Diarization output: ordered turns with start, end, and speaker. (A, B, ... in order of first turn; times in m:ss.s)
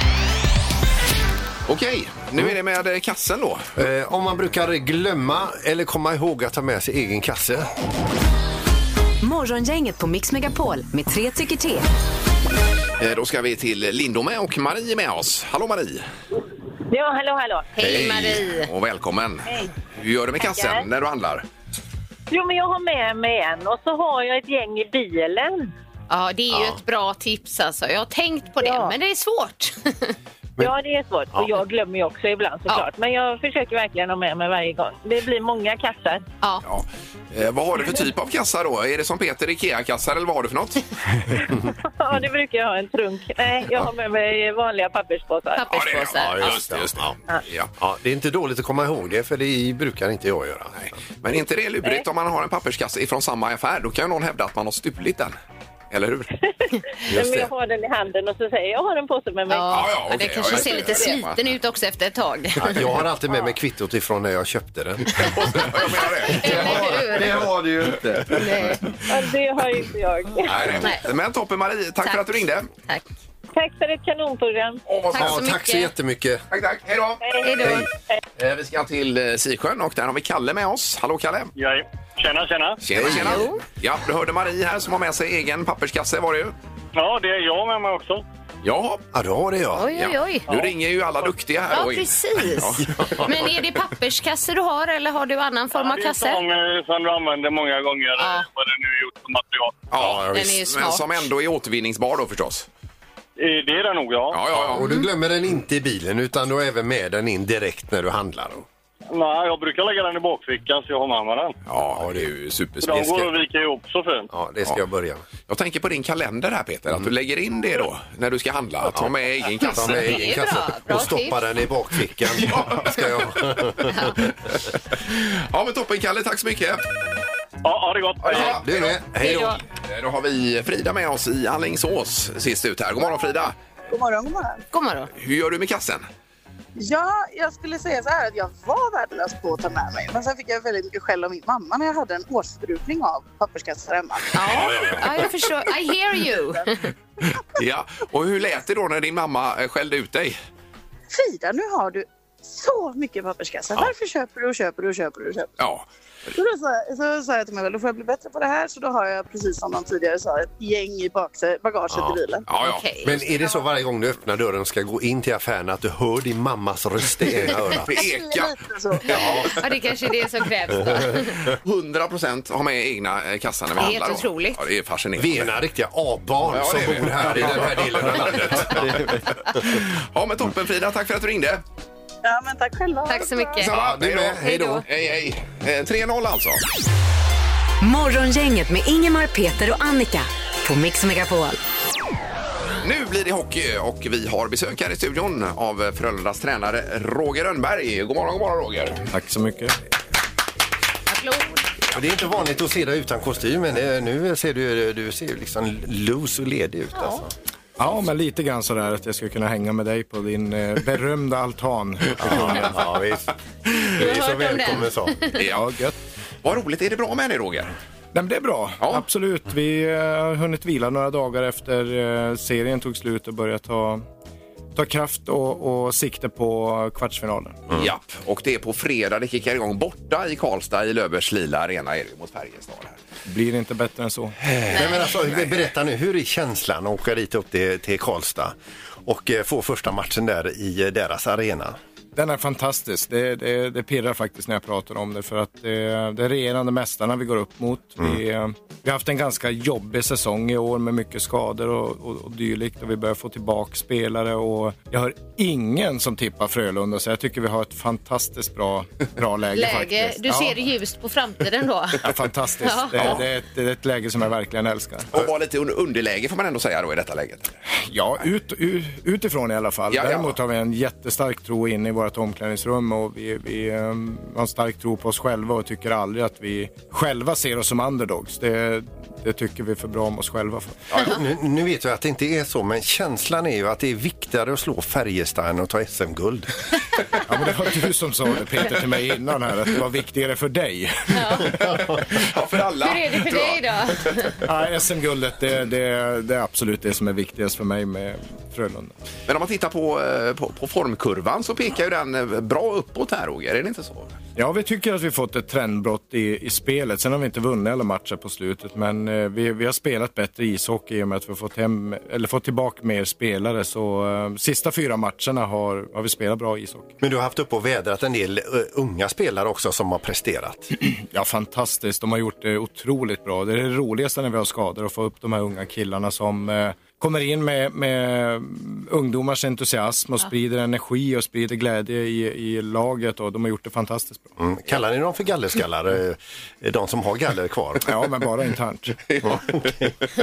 0:01.7-0:03.7 A
0:03.8-0:07.7 B
0:09.2-0:11.8 C
0:13.0-0:16.0 A
0:16.9-0:17.9 D
0:17.8-0:18.7 E
0:17.8-0:21.4 A
0:19.4-0:19.7 D
0:20.4-0:20.9 D
0:22.3-0:25.7 D
0:26.1-0:30.1 E
0:26.5-0:26.8 B
0:28.6-0:28.9 D
0:30.6-0:36.2 D
0:36.6-0:40.9 A
0:41.6-0:45.8 D
0:45.5-0:46.8 E
0:45.7-0:47.7 A
0:46.2-0:47.1 B
0:47.8-0:50.8 B
0:50.8-0:55.4 A
0:55.9-0:56.3 A
0:57.0-1:01.2 D
0:57.1-0:57.5 B
0:59.5-1:03.0 E
0:59.7-1:01.4 A
1:02.6-1:05.8 B
1:05.2-1:07.2 A
1:06.0-1:07.4 E
1:06.4-1:08.8 F
1:08.3-1:08.8 E
1:09.1-1:10.8 D
1:10.5-1:12.7 A
1:10.8-1:11.1 E
1:12.0-1:13.0 E
1:13.5-1:14.8 D
1:14.9-1:15.4 A
1:15.1-1:15.9 E
1:15.1-1:16.4 B
1:16.5-1:17.7 A
1:17.2-1:18.2 D
1:17.4-1:17.9 E
1:18.4-1:21.5 A
1:21.6-1:22.8 G
1:22.8-1:26.5 A
1:22.9-1:23.5 B
1:23.0-1:23.6 E
1:26.9-1:28.2 G
1:28.6-1:29.0 A
1:29.1-1:29.9 B
1:29.7-1:30.4 E
1:29.9-1:33.2 A
1:31.7-1:36.4 E
1:35.7-1:39.9 G
1:38.2-1:38.5 E
1:39.9-1:42.7 A
1:40.0-1:40.5 B
1:40.3-1:41.3 E
1:43.4-1:44.4 G
1:44.3-1:44.9 A
1:44.5-1:48.6 B
1:44.8-1:45.1 E
1:49.1-1:51.5 G
1:51.7-1:53.3 A
1:52.0-1:52.2 B
1:52.8-1:54.3 G
1:54.3-1:55.2 B
1:55.5-2:00.2 A
1:59.6-2:01.5 E
1:59.6-2:04.3 B
2:02.3-2:03.9 A
2:04.8-2:06.8 A
2:07.6-2:08.6 G
2:08.2-2:13.6 A
2:08.4-2:09.6 B
2:09.2-2:09.6 E
2:13.9-2:14.6 H
2:14.7-2:15.1 E
2:15.2-2:16.1 A
2:16.8-2:24.7 H
2:24.3-2:26.9 E
2:24.4-2:25.3 B
2:24.5-2:25.0 A
2:27.3-2:30.4 A
2:31.1-2:35.5 H
2:35.6-2:35.9 A
2:36.4-2:42.5 H
2:41.9-2:42.2 B
2:42.5-2:42.9 A
2:42.6-2:43.2 E
2:43.0-2:48.0 B
2:47.9-2:48.6 A
2:48.0-2:49.3 H
2:49.1-2:49.6 B
2:49.2-2:51.5 E
2:50.8-2:51.6 B
2:51.6-2:55.5 A
2:53.8-2:54.6 E
2:55.2-2:59.1 B
2:56.4-3:01.6 A
2:58.7-2:59.1 F
3:02.2-3:03.7 H
3:03.1-3:03.7 E
3:03.6-3:06.6 A
3:03.6-3:04.8 B
3:04.4-3:04.8 E
3:07.8-3:11.6 C
3:12.8-3:19.0 A
3:19.1-3:19.8 I
3:21.1-3:21.6 E
3:21.9-3:27.3 B
3:26.9-3:27.2 E
3:27.8-3:32.8 I
3:32.2-3:35.2 B
3:33.9-3:35.4 E
3:35.3-3:35.7 A
3:35.4-3:35.9 I
3:36.4-3:37.7 A
3:38.1-3:44.0 I
3:44.8-3:47.6 I
3:47.7-3:53.0 A
3:53.2-3:54.4 I
3:54.5-3:58.5 B
3:54.7-3:55.1 E
3:59.1-4:01.8 B
4:02.2-4:20.6 I
4:19.5-4:22.1 E
4:22.0-4:25.1 I
4:22.6-4:23.2 E
4:25.1-4:27.5 A
4:27.9-4:40.8 I
4:29.9-4:30.4 A
4:40.9-4:46.6 B
4:47.2-4:51.6 I
4:51.1-4:51.6 E
4:51.6-4:52.0 B
4:52.2-4:54.4 A
4:52.8-4:54.4 E
4:54.4-4:58.9 I
4:59.3-5:04.2 A
5:04.4-5:17.0 I
5:17.0-5:20.7 B
5:20.8-5:34.3 I
5:34.4-5:37.9 B
5:37.8-5:39.0 I
5:39.2-5:39.9 B